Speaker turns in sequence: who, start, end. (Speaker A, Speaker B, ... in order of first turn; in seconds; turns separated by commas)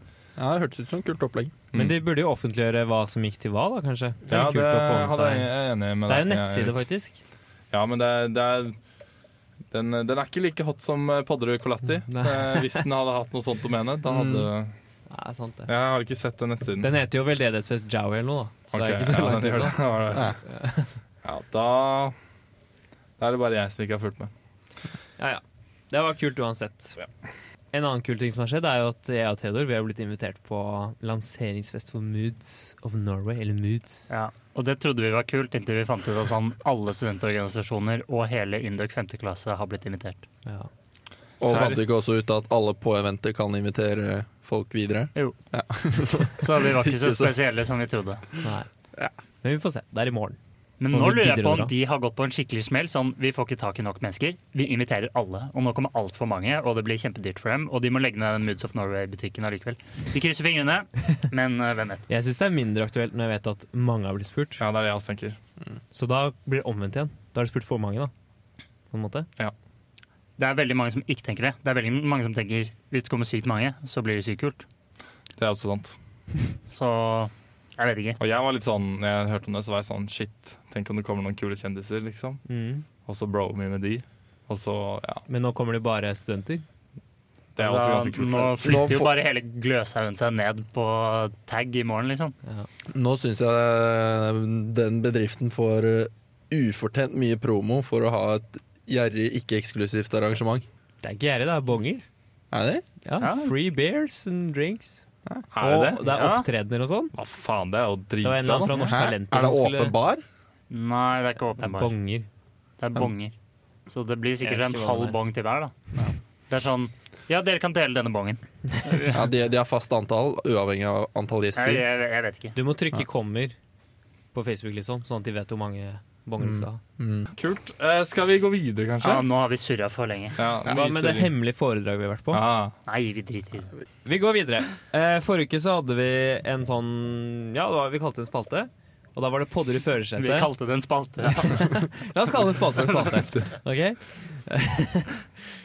Speaker A: 0.4-1.5, Speaker B: 1.7-5.5, Speaker C: 4.3-6.8, Speaker B: 6.0-7.2, Speaker C: 7.7-8.8, Speaker C: 9.7-14.7, Speaker B: 12.1-12.8, Speaker A: 14.1-14.5, Speaker B: 15.1-15.7, Speaker C: 15.7-16.9, Speaker B: 16.8-20.9, Speaker C: 18.7-20.4, Speaker A: 20.1-20.4, Speaker C: 21.2-22.1, Speaker C: 23.2-24.3, Speaker B: 25.2-27.0, Speaker B: 27.7-34.1, Speaker D: 34.1-40.2, Speaker A: 41.4-47.3, Speaker C: 41.4-41.8, Speaker D: 46.4-48.3, Speaker B: 49.4-50.4, Speaker D: 50.8-62.0, Speaker B: 50.9-51.7, Speaker B: 62.1-64.6, Speaker C: 64.6-65.4, Speaker B: 65.9-68.1, Speaker B: 68.9-69.3, Speaker D: 70.4-74.6, Speaker C: 75.4-76.0, Speaker D: 76.7-78.2, Speaker C: 78.2-82.4, Speaker B: 82.5-82.8, Speaker C: 83.0-85.2, Speaker B: 85.3-86.6, Speaker C: 87.5-88.5, Speaker D: 87.6-92.3, Speaker A: 88.3-89.1, Speaker A: 92.9-100.6, Speaker B: 101.0-102.0, Speaker A: 102.5-102.8, Speaker B: 103.0-105.0, Speaker D: 103.2-103.5, Speaker C: 105.5-106.0, Speaker B: 105.6-107.1, Speaker D: 106.0-106.5, Speaker C: 107.1-108.9, Speaker B: 108.2-109.9, Speaker A: 108.8-110.2, Speaker D: 110.7-111.9, Speaker B: 111.6-112.2, Speaker D: 112.8-113.3, Speaker D: 113.9-115.7, Speaker B: 114.4-115.2, Speaker D: 116.5-119.3, Speaker A: 119.1-121.8, Speaker D: 121.5-122.5, Speaker B: 122.5-123.5, Speaker B: 124.3-126.8, Speaker A: 126.4-127.3, Speaker C: 127.3-129.2, Speaker D: 129.0-130.4, Speaker C: 130.4-131.3, Speaker B: 130.6-132.4, Speaker C: 132.3-132.7, Speaker D: 132.8-133.7, Speaker B: 134.0-140.5, Speaker D: 140.2-141.8, Speaker B: 141.5-145.2